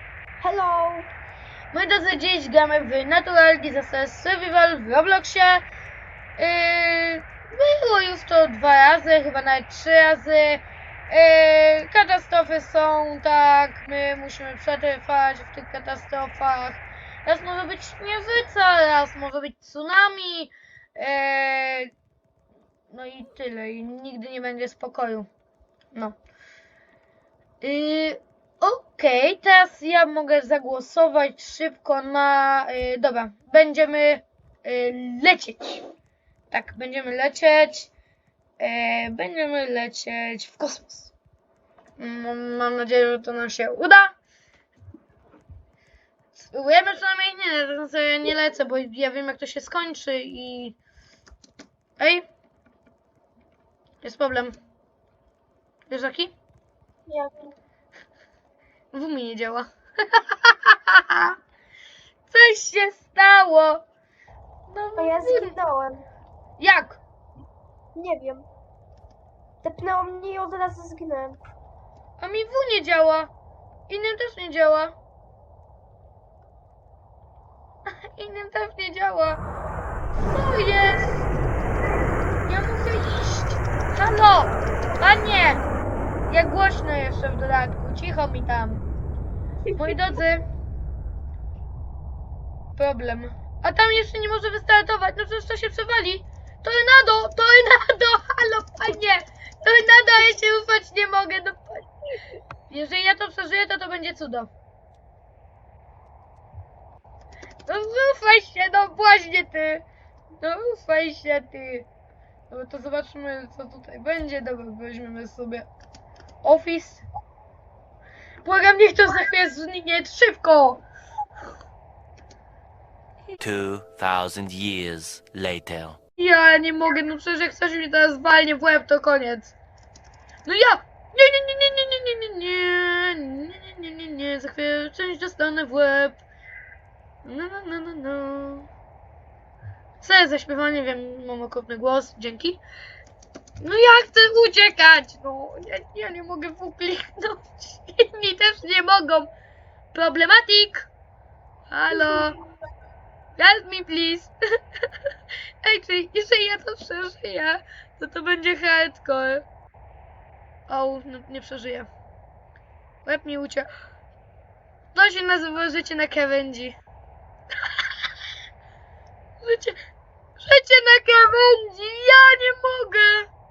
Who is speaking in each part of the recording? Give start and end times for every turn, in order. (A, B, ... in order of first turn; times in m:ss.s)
0:00.4-0:01.1 A
0:01.7-0:05.6 B
0:06.4-0:21.9 B
0:22.9-0:25.3 B
0:27.6-0:35.8 B
0:36.5-0:37.9 B
0:38.6-0:41.1 B
0:42.0-0:44.2 B
0:46.4-0:50.8 B
0:52.0-0:52.3 B
0:54.0-0:54.6 B
0:55.9-0:56.3 B
0:58.9-1:01.3 B
1:02.3-1:03.8 B
1:04.7-1:05.5 B
1:05.0-1:06.0 A
1:06.6-1:07.0 B
1:08.0-1:08.4 A
1:09.6-1:11.4 A
1:12.2-1:13.3 B
1:13.9-1:15.0 B
1:18.1-1:19.4 B
1:20.2-1:21.3 B
1:22.5-1:25.6 B
1:26.3-1:28.9 B
1:29.8-1:30.4 B
1:32.8-1:41.9 B
1:42.7-1:44.5 B
1:47.7-1:49.8 B
1:50.4-1:51.9 B
1:52.5-1:55.7 B
1:56.4-1:57.0 B
1:58.4-2:00.8 B
2:03.4-2:06.0 C
2:06.2-2:09.6 B
2:10.5-2:16.2 B
2:17.2-2:18.7 B
2:20.0-2:22.6 B
2:23.6-2:29.3 B
2:29.9-2:30.9 B
2:31.7-2:32.4 B
2:33.4-2:34.3 B
2:35.6-2:39.4 B
2:40.7-2:41.9 B
2:43.0-2:43.7 B
2:45.0-2:46.8 B
2:49.4-2:49.8 B
2:50.4-2:53.3 B